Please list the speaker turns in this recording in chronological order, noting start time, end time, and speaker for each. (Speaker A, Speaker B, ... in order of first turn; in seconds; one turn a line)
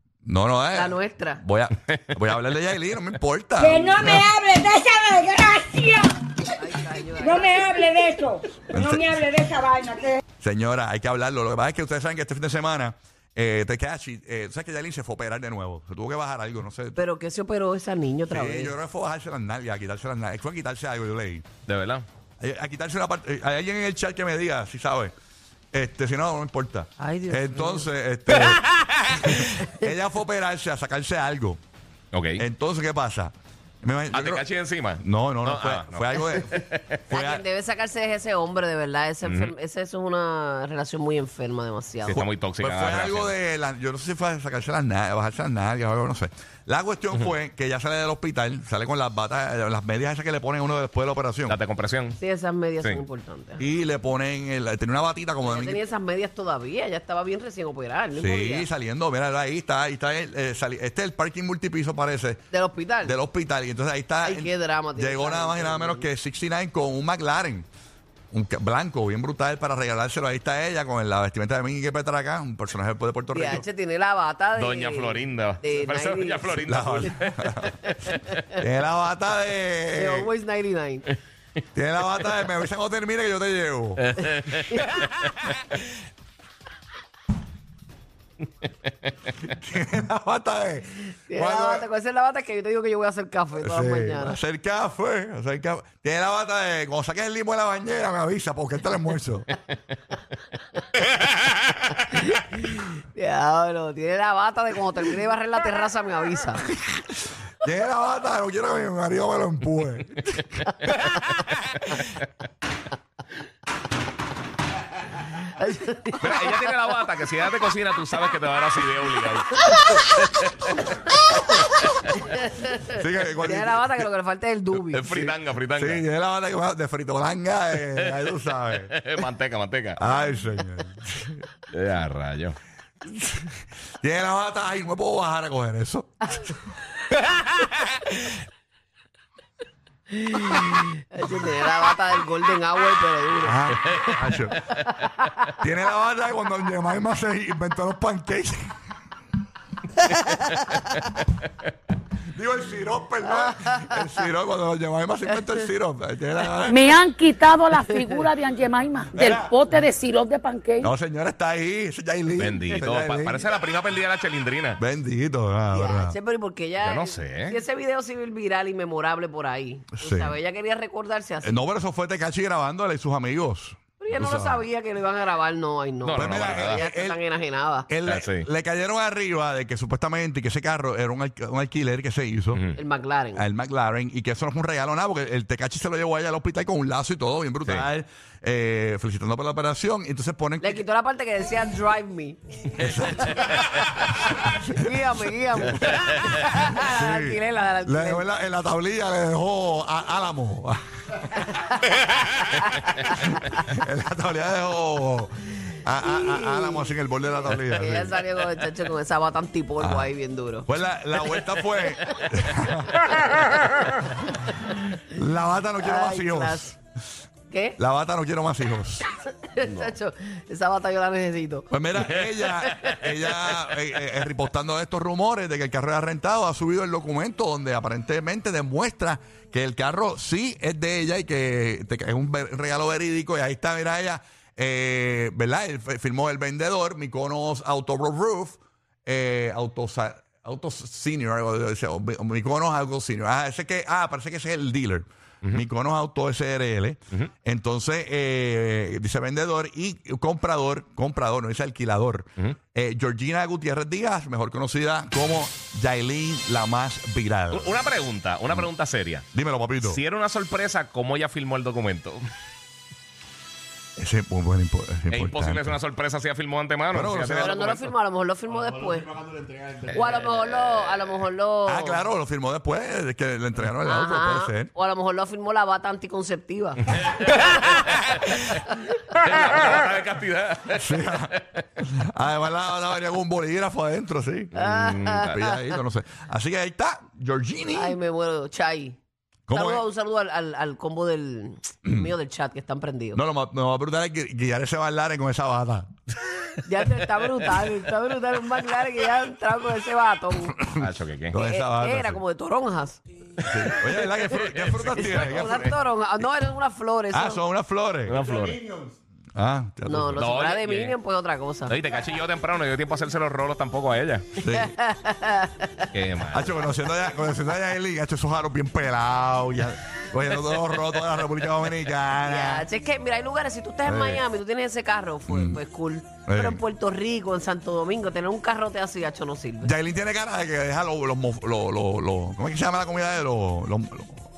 Speaker A: 0.2-4.3
Speaker B: 0.7-1.4
Speaker C: 1.9-2.4
Speaker D: 3.6-6.5
Speaker B: 6.5-8.1
Speaker D: 7.2-10.2
Speaker A: 8.6-9.2
Speaker A: 10.4-17.0
Speaker B: 16.9-18.8
Speaker A: 18.3-21.5
Speaker C: 21.7-22.1
Speaker A: 22.4-25.1
Speaker A: 25.7-31.6
Speaker B: 27.0-27.9
Speaker C: 28.8-29.4
Speaker C: 32.1-32.4
Speaker A: 32.4-34.4
Speaker C: 34.1-37.0
Speaker A: 35.0-37.4
Speaker B: 37.1-42.2
Speaker C: 39.2-39.5
Speaker C: 42.0-43.3
Speaker A: 42.1-51.6
Speaker C: 51.5-52.2
Speaker B: 52.2-53.6
Speaker A: 53.6-55.8
Speaker B: 55.4-58.7
Speaker A: 58.2-62.5
Speaker B: 62.5-63.2
Speaker A: 63.0-67.7
Speaker B: 64.2-66.1
Speaker A: 68.3-73.7
Speaker B: 73.3-76.7
Speaker C: 74.6-77.5
Speaker A: 76.6-77.9
Speaker B: 77.6-78.4
Speaker C: 78.2-78.5
Speaker A: 78.6-80.3
Speaker B: 79.9-81.1
Speaker A: 81.7-84.1
Speaker C: 84.0-85.8
Speaker A: 89.4-91.8
Speaker B: 91.3-94.4
Speaker A: 93.6-99.5
Speaker A: 101.2-101.8
Speaker B: 102.1-106.7
Speaker A: 107.6-111.1
Speaker C: 111.5-112.1
Speaker B: 115.2-116.4
Speaker C: 116.2-120.9
Speaker B: 119.7-120.1
Speaker C: 121.8-122.2
Speaker B: 122.2-125.3
Speaker A: 122.9-124.0
Speaker C: 124.9-126.0
Speaker A: 125.8-128.9
Speaker C: 127.9-128.3
Speaker C: 128.9-130.0
Speaker A: 130.0-131.4
Speaker C: 131.7-132.6
Speaker A: 133.1-136.6
Speaker B: 140.1-145.5
Speaker A: 143.4-144.8
Speaker A: 145.5-148.8
Speaker B: 150.1-150.6
Speaker A: 152.3-156.9
Speaker B: 153.3-154.0
Speaker E: 156.6-160.9
Speaker B: 157.9-158.2
Speaker A: 159.1-159.6
Speaker A: 160.8-163.4
Speaker C: 162.3-164.8
Speaker A: 164.8-166.2
Speaker B: 165.7-171.6
Speaker C: 166.8-167.6
Speaker A: 170.0-170.3
Speaker A: 171.4-174.6
Speaker B: 174.0-177.9
Speaker C: 176.0-176.8
Speaker A: 176.2-177.2
Speaker A: 177.9-182.6
Speaker C: 178.1-178.5
Speaker C: 182.5-182.8
Speaker B: 182.8-183.4
Speaker A: 183.3-190.8
Speaker B: 190.6-193.6
Speaker A: 192.8-194.9
Speaker B: 194.6-198.3
Speaker A: 195.6-208.2
Speaker B: 201.4-202.0
Speaker B: 206.0-207.0
Speaker B: 207.5-210.7
Speaker A: 209.8-210.1
Speaker A: 210.7-213.1
Speaker A: 214.0-216.8
Speaker B: 215.8-216.7
Speaker B: 217.5-217.8
Speaker A: 217.8-219.1
Speaker B: 219.2-221.7
Speaker C: 219.6-219.9
Speaker A: 221.7-257.8
Speaker B: 222.4-223.0
Speaker C: 257.5-259.2
Speaker A: 259.3-260.0
Speaker C: 259.8-262.2
Speaker A: 264.0-265.8
Speaker C: 265.1-267.9
Speaker A: 266.9-267.6
Speaker B: 267.4-269.2
Speaker C: 269.6-271.2
Speaker B: 269.9-272.1
Speaker A: 271.7-274.7
Speaker B: 273.8-278.9
Speaker C: 277.0-281.6
Speaker A: 280.7-284.6
Speaker B: 284.5-285.6
Speaker C: 284.6-285.5
Speaker A: 285.2-288.0
Speaker B: 287.7-289.0
Speaker A: 289.5-289.9
Speaker B: 289.5-293.2
Speaker A: 291.8-292.1
Speaker A: 293.1-295.9
Speaker B: 296.6-300.7
Speaker A: 300.5-302.2
Speaker C: 300.8-301.3
Speaker B: 301.3-303.0
Speaker A: 303.4-305.7
Speaker C: 304.3-305.7
Speaker B: 305.0-307.4
Speaker A: 307.1-308.2
Speaker C: 308.1-308.8
Speaker A: 309.4-310.3
Speaker B: 309.9-311.8
Speaker C: 310.2-310.9
Speaker C: 311.7-314.3
Speaker A: 314.4-314.7
Speaker B: 314.4-315.9
Speaker C: 315.9-316.6
Speaker A: 316.3-322.7
Speaker B: 322.2-329.7
Speaker A: 323.9-324.2
Speaker A: 325.3-325.6
Speaker A: 326.3-326.6
Speaker A: 329.6-334.3